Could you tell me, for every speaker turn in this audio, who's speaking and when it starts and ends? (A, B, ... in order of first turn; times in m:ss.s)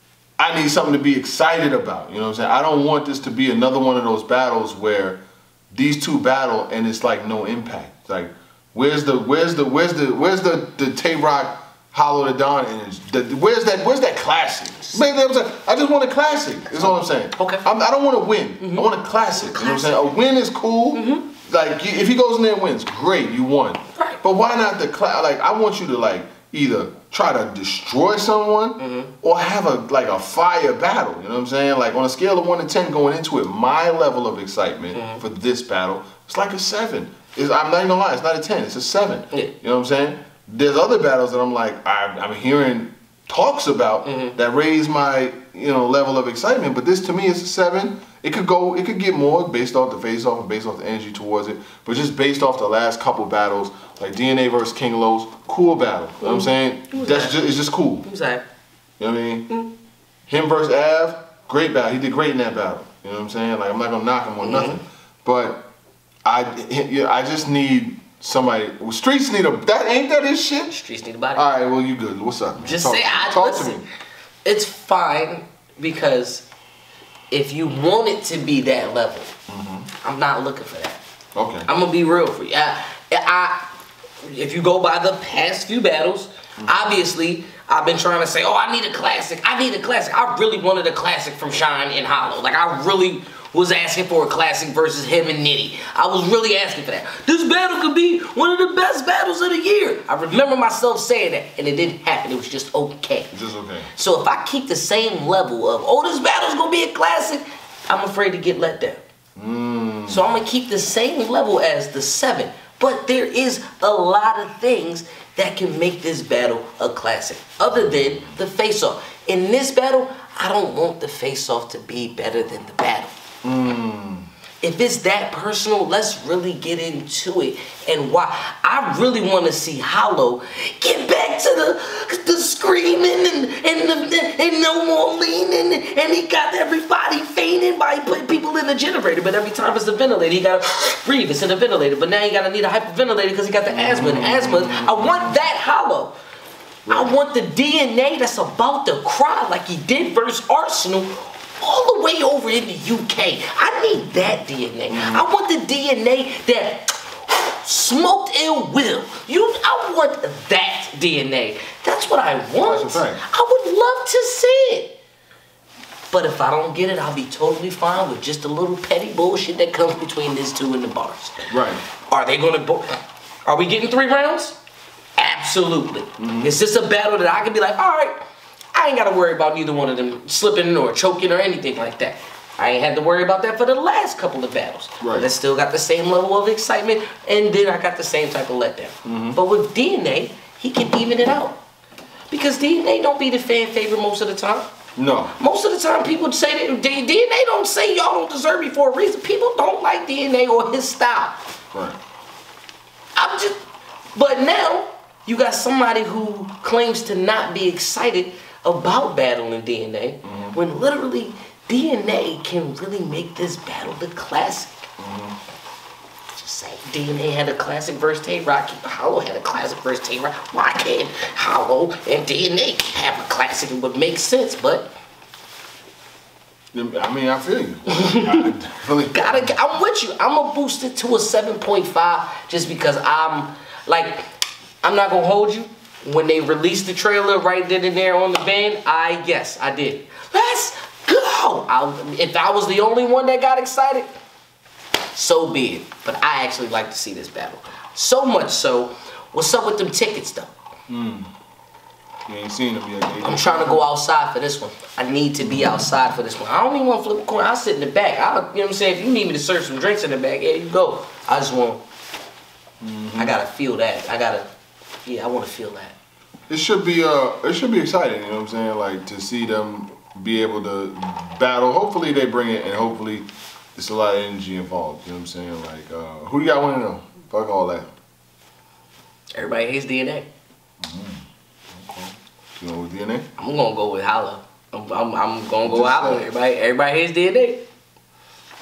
0:00.4-0:05.2 A
0:05.7-0:58.0 A
0:16.8-0:17.6 B
0:18.6-0:20.1 B
0:20.9-0:21.3 B
0:23.9-0:24.2 B
0:28.8-0:29.1 B
0:34.9-0:35.2 B
0:44.0-0:44.4 B
0:56.2-0:57.4 B
0:58.0-0:58.4 B
0:59.0-0:59.5 A
1:00.3-1:05.7 A
1:04.4-1:04.8 B
1:06.2-1:10.7 A
1:10.7-1:11.5 B
1:11.3-1:13.8 A
1:12.6-1:13.8 B
1:14.4-1:16.4 B
1:17.3-1:19.3 B
1:19.5-1:19.9 A
1:20.0-1:21.0 B
1:21.3-1:21.7 A
1:21.6-1:23.7 B
1:24.2-1:43.3 B
1:26.6-1:27.0 A
1:43.3-1:43.9 A
1:43.9-1:49.0 B
1:49.4-1:50.4 A
1:50.1-2:03.2 B
2:03.4-2:04.3 A
2:04.6-2:26.2 B
2:23.7-2:25.4 A
2:26.8-2:27.1 A
2:26.9-2:45.0 B
2:34.9-2:35.2 A
2:42.6-2:43.2 A
2:46.1-2:51.4 B
2:51.5-2:51.8 A
2:52.0-2:54.6 B
2:55.2-2:58.2 B
2:56.2-2:56.6 A
2:58.7-3:11.6 B
3:05.0-3:05.3 A
3:09.0-3:09.4 A
3:12.3-3:14.7 B
3:15.0-3:15.3 A
3:15.4-3:21.4 B
3:21.7-3:22.0 A
3:23.1-3:23.6 B
3:24.1-3:34.9 B
3:30.2-3:30.6 A
3:35.0-3:35.4 A
3:36.3-3:44.9 B
3:46.7-3:49.6 A
3:48.0-3:48.4 B
3:49.1-3:54.3 B
3:54.8-4:04.1 B
4:05.1-4:10.5 B
4:10.9-4:11.3 A
4:12.3-4:13.8 A
4:13.2-4:21.8 B
4:15.4-4:15.9 A
4:22.8-4:23.4 A
4:23.2-4:24.5 B
4:25.0-4:26.0 B
4:26.5-4:37.9 A
4:39.3-4:40.3 B
4:40.8-4:43.3 A
4:43.4-4:47.6 B
4:45.6-4:46.3 A